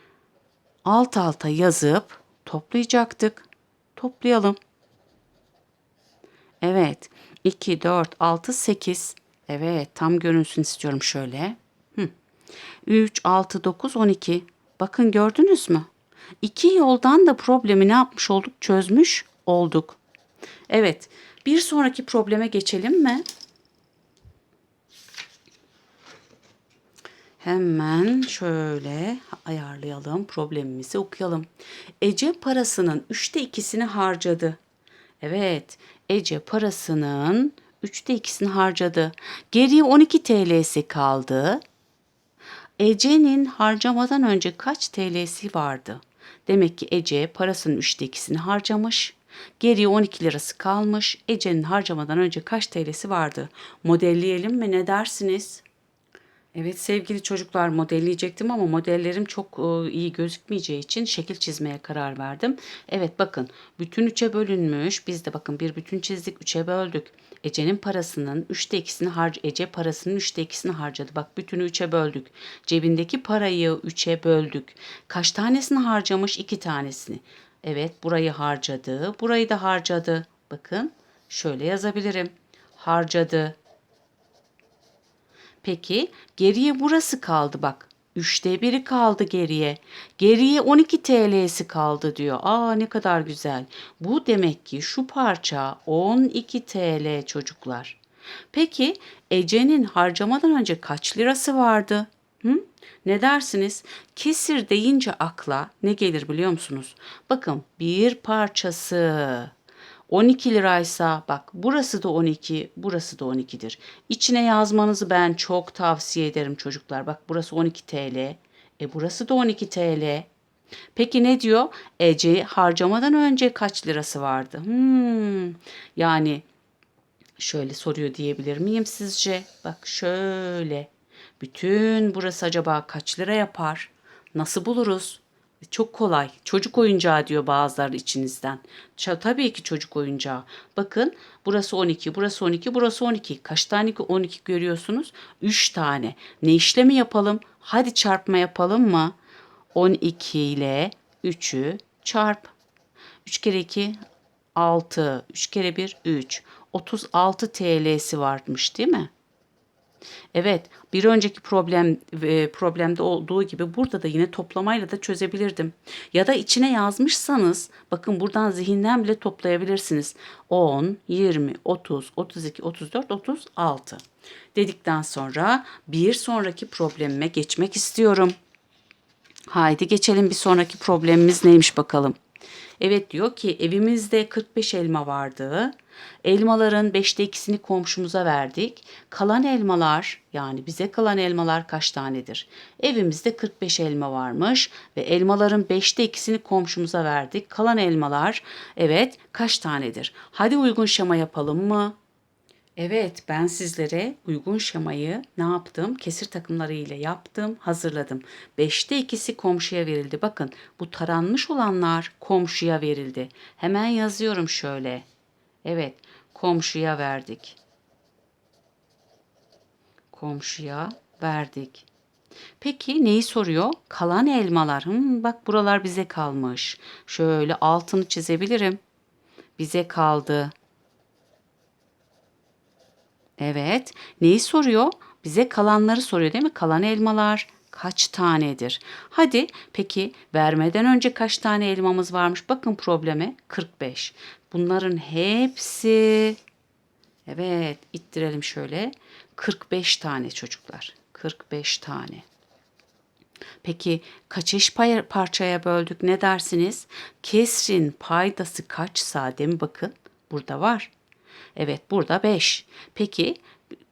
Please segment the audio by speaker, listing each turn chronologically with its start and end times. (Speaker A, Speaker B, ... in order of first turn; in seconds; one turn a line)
Speaker A: 0.8-4.6
Speaker A: 6.6-12.1
Speaker A: 12.8-15.9
Speaker A: 16.4-20.0
Speaker A: 20.7-23.2
Speaker A: 27.4-31.5
Speaker A: 32.0-34.6
Speaker A: 35.2-41.6
Speaker A: 42.8-55.6
Speaker A: 56.5-83.6
Speaker A: 85.6-98.0
Speaker A: 98.5-109.5
Speaker A: 110.1-120.3
Speaker A: 120.9-126.4
Speaker A: 127.4-149.2
Speaker A: 149.7-152.5
Speaker A: 153.2-154.0
Speaker A: 154.6-159.1
Speaker A: 160.3-174.0
Speaker A: 174.5-178.3
Speaker A: 179.5-182.2
Speaker A: 182.8-201.9
Speaker A: 202.8-215.1
Speaker A: 215.6-217.6
Speaker A: 220.1-221.9
Speaker A: 222.6-228.8
Speaker A: 229.6-230.5
Speaker A: 233.4-246.4
Speaker A: 247.2-252.2
Speaker A: 253.6-260.9
Speaker A: 261.6-263.4